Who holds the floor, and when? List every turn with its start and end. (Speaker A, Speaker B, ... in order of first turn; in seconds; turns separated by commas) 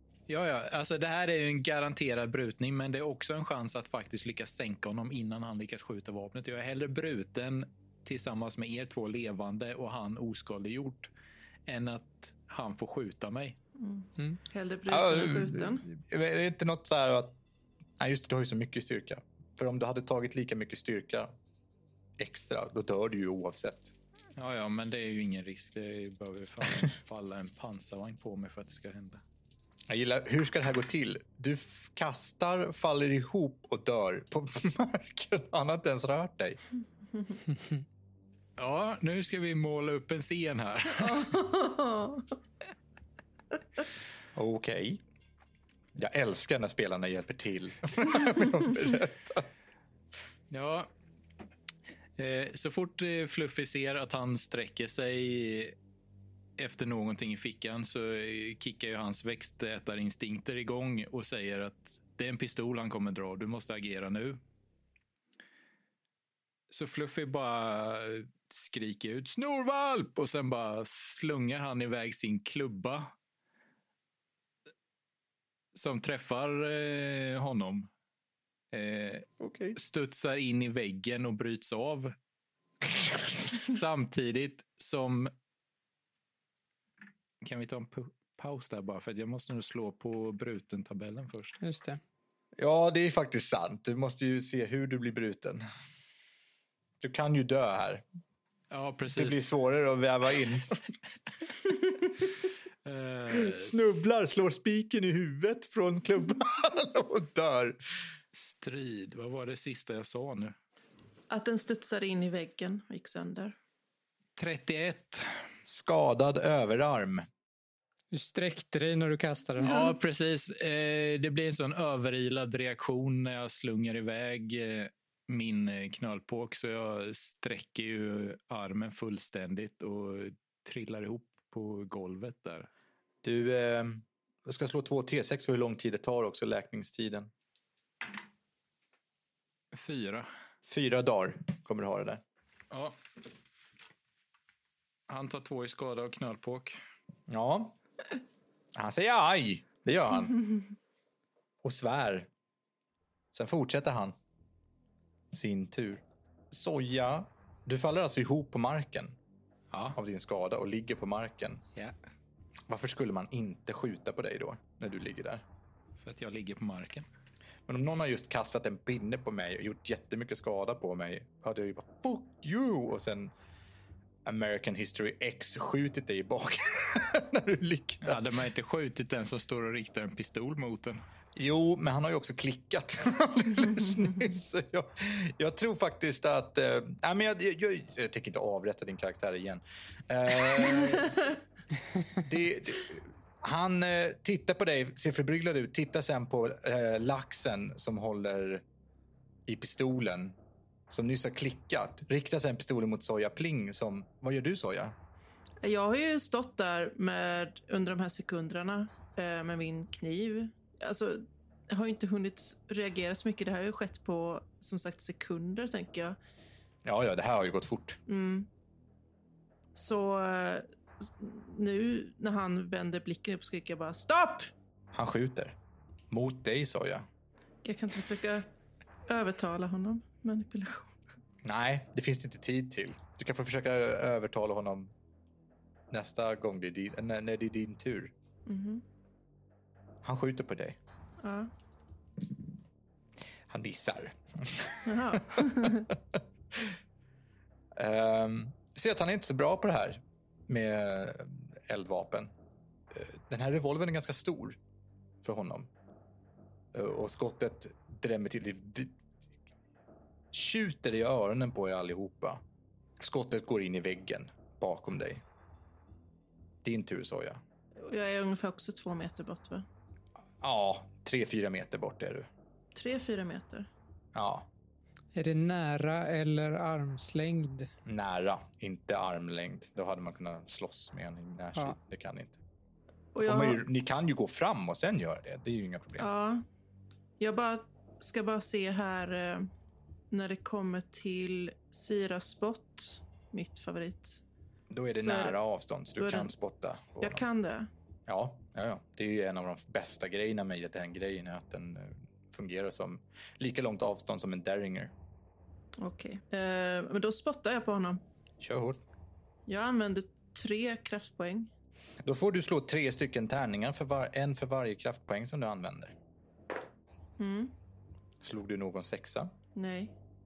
Speaker A: 0.3-11.1, Speaker A: 11.7-13.6, Speaker B: 13.8-15.8, Speaker C: 14.9-17.4, Speaker C: 18.0-21.3, Speaker C: 22.2-23.9, Speaker A: 24.4-29.2, Speaker C: 29.9-36.6, Speaker A: 38.6-41.4, Speaker B: 41.0-42.3, Speaker C: 44.3-45.0, Speaker C: 46.0-49.5, Speaker A: 50.5-50.9, Speaker A: 52.2-55.8, Speaker A: 56.6-64.4, Speaker A: 66.7-73.1, Speaker A: 75.7-77.9, Speaker A: 78.7-82.1, Speaker C: 79.4-79.8, Speaker A: 82.8-85.3, Speaker A: 87.4-91.6, Speaker D: 91.6-92.0, Speaker C: 92.6-95.6, Speaker C: 97.0-98.0, Speaker A: 98.7-99.5, Speaker C: 99.1-100.8, Speaker A: 102.8-104.0, Speaker C: 103.3-107.8, Speaker A: 108.3-110.5, Speaker B: 111.3-113.5, Speaker A: 114.4-115.3, Speaker C: 115.7-117.2, Speaker D: 118.1-119.7, Speaker A: 119.6-132.7, Speaker B: 119.6-119.9, Speaker C: 133.2-137.3, Speaker A: 139.7-140.3, Speaker C: 140.7-142.2, Speaker A: 142.7-143.0, Speaker A: 145.1-146.8, Speaker C: 147.3-147.8, Speaker C: 148.7-150.4, Speaker C: 151.6-152.3, Speaker C: 153.3-154.1, Speaker C: 155.3-159.2, Speaker A: 159.7-160.0, Speaker C: 159.9-161.6, Speaker C: 162.7-165.4, Speaker A: 166.0-167.1, Speaker C: 167.7-173.3, Speaker C: 174.2-178.2, Speaker A: 178.0-181.0, Speaker C: 181.3-191.3, Speaker C: 192.1-198.6, Speaker C: 199.5-200.3, Speaker C: 200.9-204.9, Speaker B: 205.6-216.2, Speaker C: 216.8-218.0, Speaker B: 218.1-218.5, Speaker B: 219.7-224.5, Speaker C: 224.9-225.5, Speaker C: 226.1-227.1, Speaker B: 227.6-228.5, Speaker B: 229.1-230.9, Speaker C: 231.4-234.9, Speaker C: 235.9-238.1, Speaker B: 238.4-238.8, Speaker C: 240.0-240.8, Speaker B: 241.2-241.5, Speaker C: 243.5-246.2, Speaker B: 244.8-245.9, Speaker C: 247.7-252.3, Speaker C: 252.9-254.6, Speaker C: 255.2-255.7, Speaker C: 256.7-258.9, Speaker C: 260.3-262.4, Speaker C: 263.0-265.2, Speaker C: 266.6-267.4, Speaker B: 267.8-269.6, Speaker C: 270.4-272.3, Speaker B: 272.7-273.7, Speaker C: 274.1-274.5, Speaker D: 275.1-277.7, Speaker C: 277.9-282.4, Speaker B: 283.1-283.6, Speaker C: 283.2-286.1, Speaker B: 286.0-286.4, Speaker B: 287.2-289.5, Speaker B: 290.1-294.2, Speaker C: 294.7-297.2, Speaker B: 294.9-295.4, Speaker B: 296.0-296.3, Speaker B: 297.0-297.7, Speaker C: 298.1-304.9, Speaker B: 305.8-308.0, Speaker C: 308.4-308.8, Speaker B: 309.5-311.5, Speaker C: 312.0-315.9, Speaker B: 317.2-317.5, Speaker C: 318.2-319.3, Speaker B: 319.5-319.9